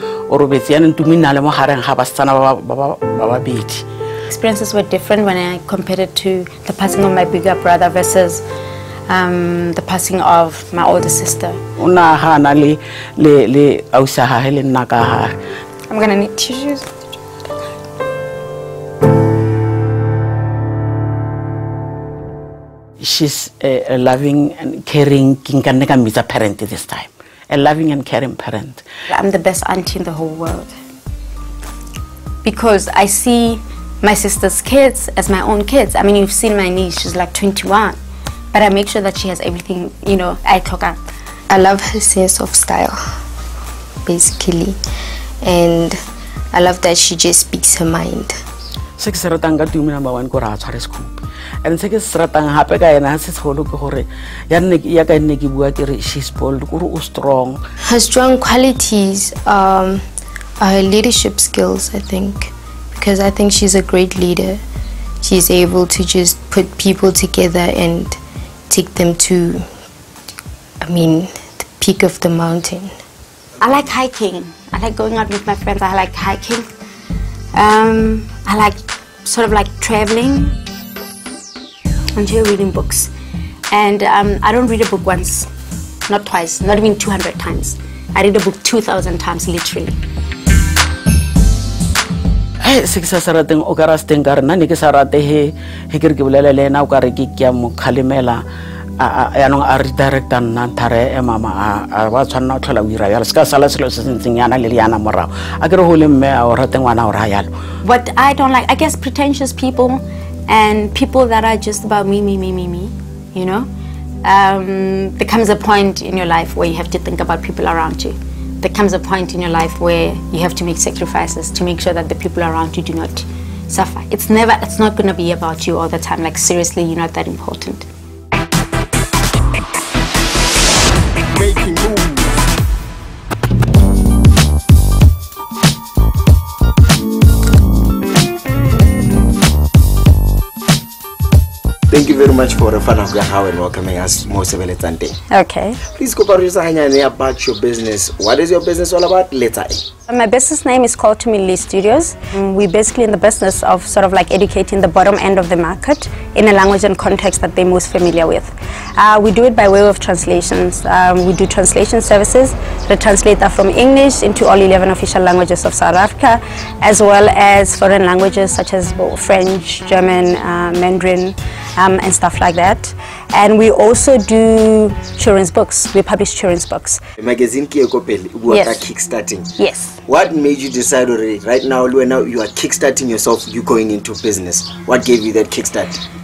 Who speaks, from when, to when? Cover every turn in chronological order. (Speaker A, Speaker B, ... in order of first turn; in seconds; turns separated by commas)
Speaker A: 0.3-3.8, Speaker B: 4.3-8.4, Speaker B: 9.1-11.6, Speaker A: 11.8-15.3, Speaker B: 15.9-16.9, Speaker A: 23.0-28.8, Speaker B: 29.1-30.7, Speaker B: 32.4-38.0, Speaker B: 38.5-41.0, Speaker C: 41.5-43.2, Speaker C: 44.0-44.8, Speaker C: 45.4-46.0, Speaker C: 46.5-48.4, Speaker A: 49.0-51.1, Speaker A: 51.6-57.6, Speaker C: 57.8-60.0, Speaker C: 60.6-64.6, Speaker C: 65.2-68.2, Speaker C: 68.7-69.7, Speaker C: 70.8-73.0, Speaker B: 73.6-76.6, Speaker B: 77.5-80.5, Speaker B: 82.2-83.1, Speaker B: 83.7-85.5, Speaker B: 86.1-89.9, Speaker A: 92.6-98.4, Speaker A: 99.0-107.5, Speaker B: 107.8-113.7, Speaker B: 114.2-127.8, Speaker D: 141.9-145.2, Speaker B: 145.3-145.8, Speaker D: 145.8-149.8, Speaker B: 150.1-177.0, Speaker D: 177.2-179.5, Speaker B: 178.5-178.8, Speaker B: 179.6-180.0, Speaker D: 180.1-186.0